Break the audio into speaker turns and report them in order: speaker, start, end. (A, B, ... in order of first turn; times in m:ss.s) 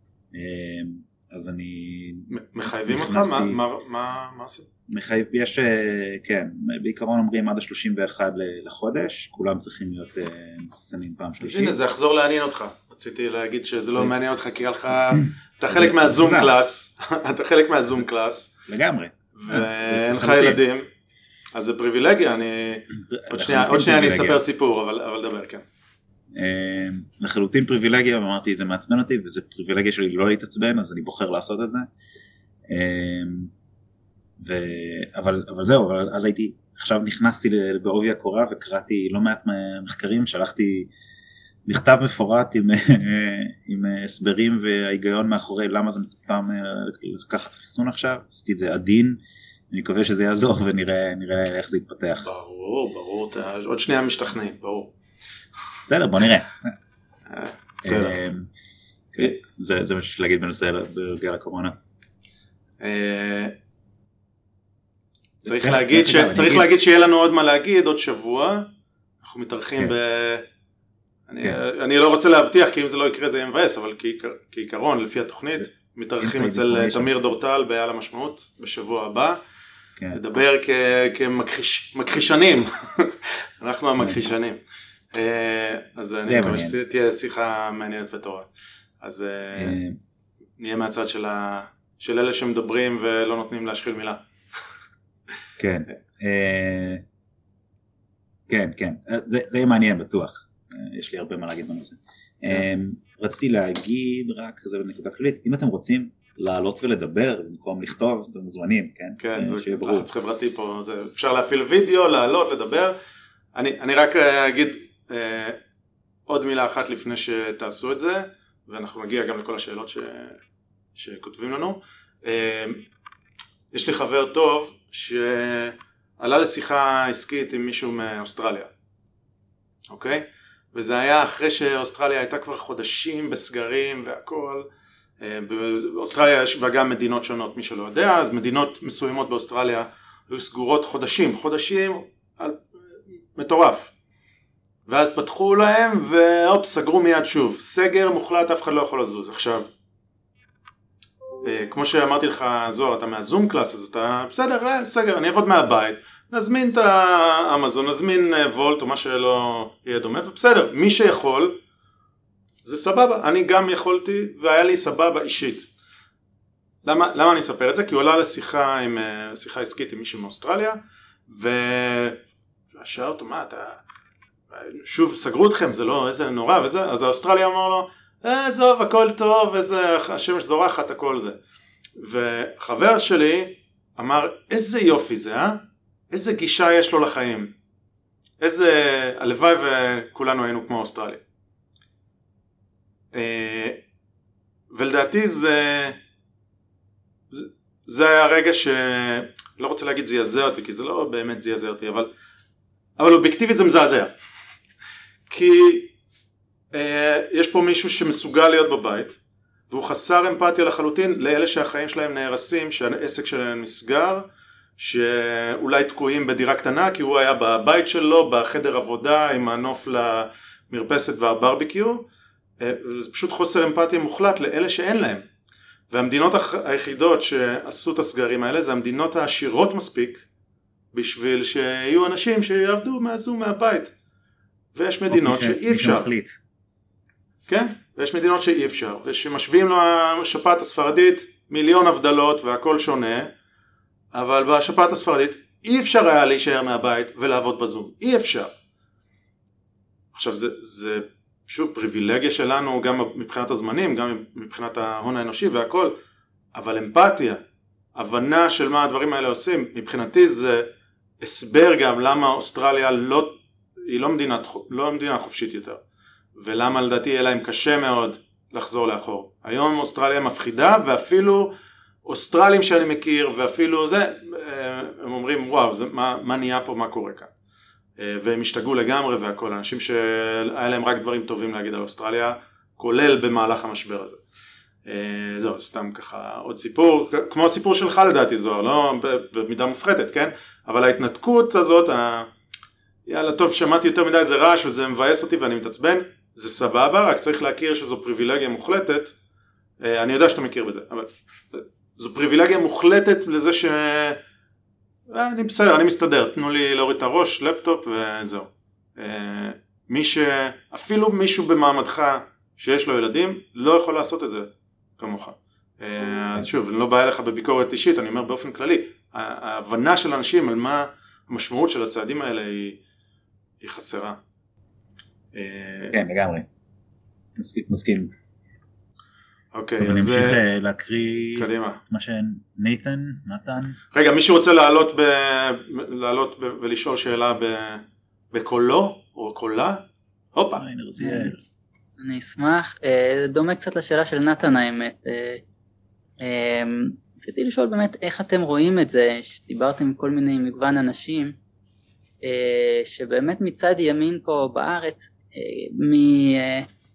0:00.3-0:03.6 A
0:02.3-0:04.7 B
0:04.9-0:11.8 A
0:11.4-0:18.5 B
0:15.7-0:16.5 A
0:18.7-0:20.6 A
0:19.4-0:20.9 B
0:21.6-0:25.6 B
0:23.0-0:24.4 A
0:26.3-0:31.9 A
0:32.7-0:33.5 A
0:34.4-0:40.9 A
0:41.7-0:49.2 A
0:49.7-0:52.3 A
0:52.2-0:54.9 B
0:55.9-0:56.7 A
0:57.3-0:58.2 B
0:57.8-0:58.5 A
0:59.1-1:01.8 A
1:02.8-1:03.5 B
1:05.4-1:06.7 A
1:05.5-1:08.7 B
1:09.2-1:10.4 B
1:11.3-1:19.4 B
1:16.2-1:17.1 A
1:20.1-1:24.6 B
1:25.2-1:28.5 B
1:26.3-1:26.8 A
1:29.0-1:29.8 B
1:29.6-1:30.0 A
1:30.6-1:34.2 B
1:35.6-1:37.0 A
1:38.5-1:50.1 A
1:49.2-1:53.0 B
1:53.6-1:55.6 B
1:56.3-2:00.4 B
2:01.0-2:02.8 B
2:03.7-2:08.7 B
2:09.9-2:14.7 B
2:15.2-2:22.6 B
2:23.4-2:23.9 B
2:24.9-2:29.7 B
2:31.4-2:41.6 B
2:42.6-2:45.7 B
2:46.8-2:52.2 B
2:52.8-2:53.8 B
2:54.5-3:01.4 B
3:02.0-3:05.6 B
3:06.1-3:07.5 B
3:08.4-3:11.2 B
3:13.1-3:13.8 B
3:14.7-3:16.0 B
3:17.3-3:22.1 B
3:23.0-3:24.1 B
3:25.3-3:25.9 B
3:26.7-3:29.2 B
3:29.7-3:34.3 B
3:34.8-3:42.0 B
3:42.6-3:45.2 B
3:45.9-3:50.2 B
3:50.9-3:53.9 B
3:54.8-3:56.1 B
3:55.1-3:56.3 A
3:57.5-4:03.3 B
4:04.1-4:08.5 B
4:10.1-4:16.0 B
4:16.5-4:17.4 B
4:18.0-4:20.7 B
4:21.2-4:23.3 B
4:23.9-4:25.8 B
4:26.4-4:31.5 B
4:32.1-4:37.3 B
4:38.0-4:44.2 B
4:44.9-4:52.3 B
4:53.1-4:59.1 B
4:59.8-5:04.2 B
5:05.1-5:22.8 B
5:23.6-5:24.2 B
5:25.3-5:26.0 B
5:25.9-5:26.5 A
5:27.4-5:28.1 A
5:29.5-5:30.4 B
5:29.8-5:33.8 A
5:31.4-5:31.8 B
5:33.9-5:39.8 B
5:40.4-5:40.6 B
5:40.6-5:41.4 A
5:41.0-5:41.3 C
5:42.0-5:45.4 C
5:46.2-5:51.4 C
5:52.2-5:56.7 C